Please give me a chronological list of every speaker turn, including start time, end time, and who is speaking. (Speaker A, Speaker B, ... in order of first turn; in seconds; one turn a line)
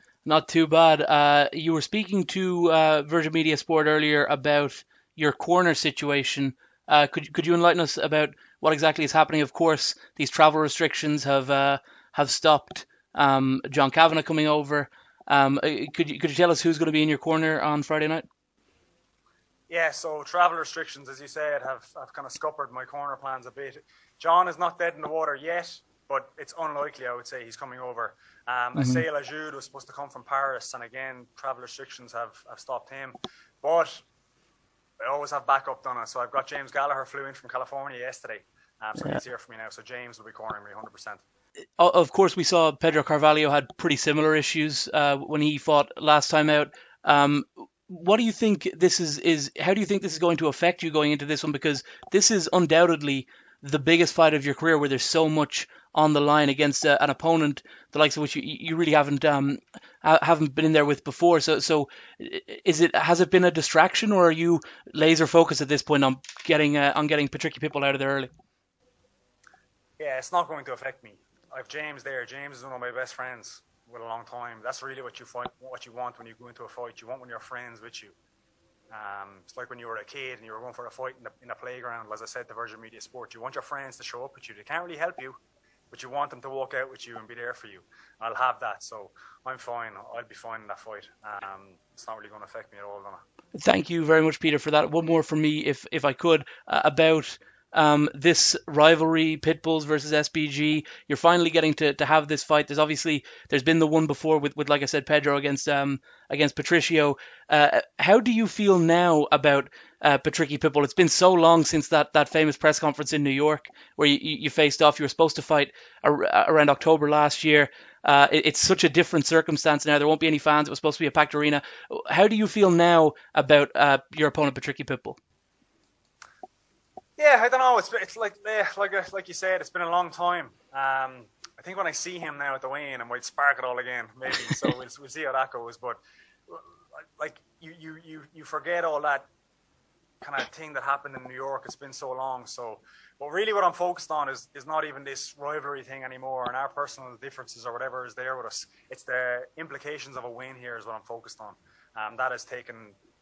Speaker A: 0.2-18.2
Speaker B: 19.7-34.0
Speaker A: 28.8-29.0
Speaker B: 35.0-41.2
Speaker A: 41.8-68.3
Speaker B: 70.0-78.1
Speaker B: 78.9-85.4
Speaker B: 85.9-93.2
Speaker A: 93.5-125.2
Speaker B: 127.2-139.3
Speaker B: 140.2-153.0